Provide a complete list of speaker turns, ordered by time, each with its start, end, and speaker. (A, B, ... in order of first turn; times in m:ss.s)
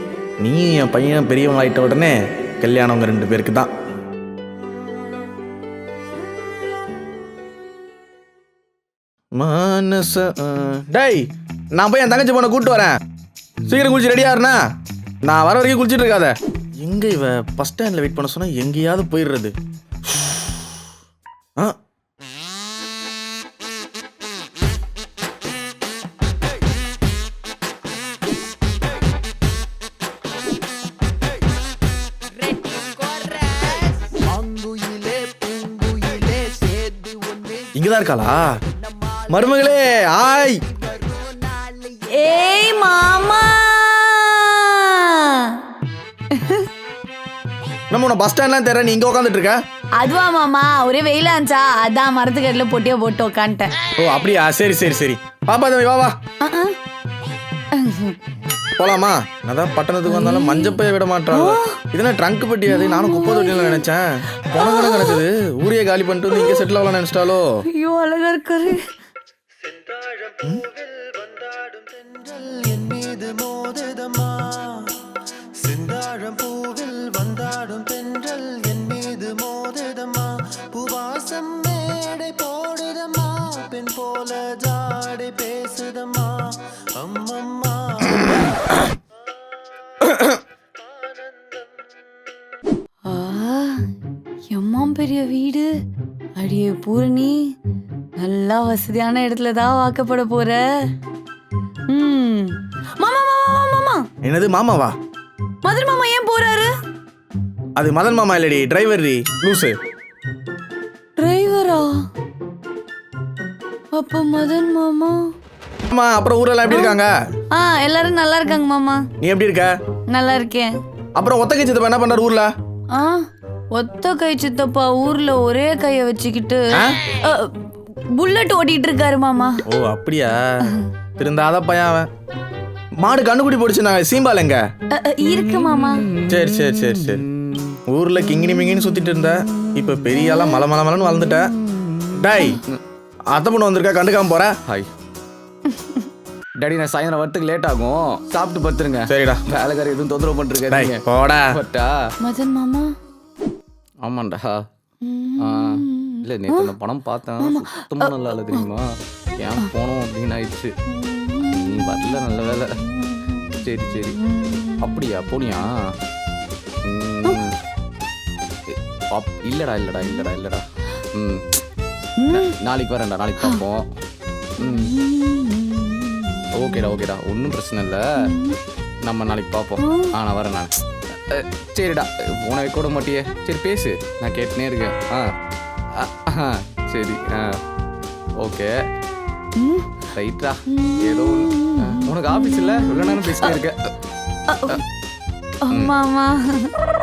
0:00.4-0:03.7 A
0:09.4-0:13.0 A
0:13.6-0:14.6 A
0:15.2-0:19.5 A
0:20.1-0:20.7 A
0:34.1-0:37.7 B
0:37.7-0:38.5 A
0:39.3-0:40.6 A
0:40.7-0:41.9 B
0:42.0-0:45.6 C
0:46.3-0:46.7 C
0:47.9-0:49.6 A
0:50.0-0:53.8 C
0:53.9-0:56.2 A
0:56.4-0:56.8 C
0:57.7-0:58.2 C
0:58.8-1:07.4 A
1:00.1-1:00.8 C
1:01.3-1:01.8 C
1:02.7-1:03.8 C
1:04.4-1:05.2 C
1:06.3-1:06.7 C
1:07.7-1:08.8 C
1:09.9-1:10.4 B
1:11.0-1:14.9 B
1:15.6-1:28.5 B
1:33.1-1:33.8 C
1:34.5-1:35.7 C
1:36.4-1:37.4 C
1:38.2-1:40.6 C
1:41.9-1:44.0 C
1:44.2-1:44.9 A
1:45.6-1:46.7 C
1:47.8-1:49.8 A
1:51.2-1:52.0 C
1:53.9-1:55.2 C
1:55.9-1:57.1 A
1:56.7-1:57.0 C
1:57.5-1:59.0 C
1:59.2-1:59.7 A
2:00.1-2:00.7 C
2:01.2-2:02.5 A
2:02.9-2:03.2 C
2:03.7-2:07.5 C
2:06.7-2:07.0 A
2:08.1-2:09.6 C
2:09.7-2:10.4 A
2:11.2-2:12.1 A
2:13.0-2:14.6 A
2:14.9-2:16.1 C
2:15.4-2:17.8 D
2:16.3-2:17.2 A
2:17.9-2:21.5 A
2:20.2-2:20.6 C
2:22.2-2:22.6 A
2:23.3-2:24.6 A
2:25.8-2:26.0 C
2:26.6-2:31.9 D
2:29.1-2:29.5 A
2:30.7-2:31.5 A
2:32.2-2:32.9 C
2:34.0-2:34.6 D
2:35.0-2:36.7 C
2:35.4-2:38.9 D
2:37.4-2:38.6 C
2:39.4-2:40.7 D
2:40.9-2:42.2 C
2:41.5-2:42.8 D
2:42.8-2:45.1 C
2:43.6-2:44.2 D
2:44.8-2:45.7 D
2:46.8-2:47.5 D
2:48.7-2:51.4 D
2:52.2-2:52.5 C
2:52.3-2:53.9 D
2:54.6-2:54.9 D
2:54.6-2:57.0 C
2:56.5-2:58.3 D
2:58.2-2:58.6 C
2:59.0-3:05.3 D
2:59.8-3:00.2 C
3:06.0-3:07.6 D
3:08.4-3:08.7 D
3:09.6-3:10.0 C
3:10.2-3:13.9 D
3:10.7-3:13.6 C
3:14.5-3:14.8 C
3:15.6-3:16.7 C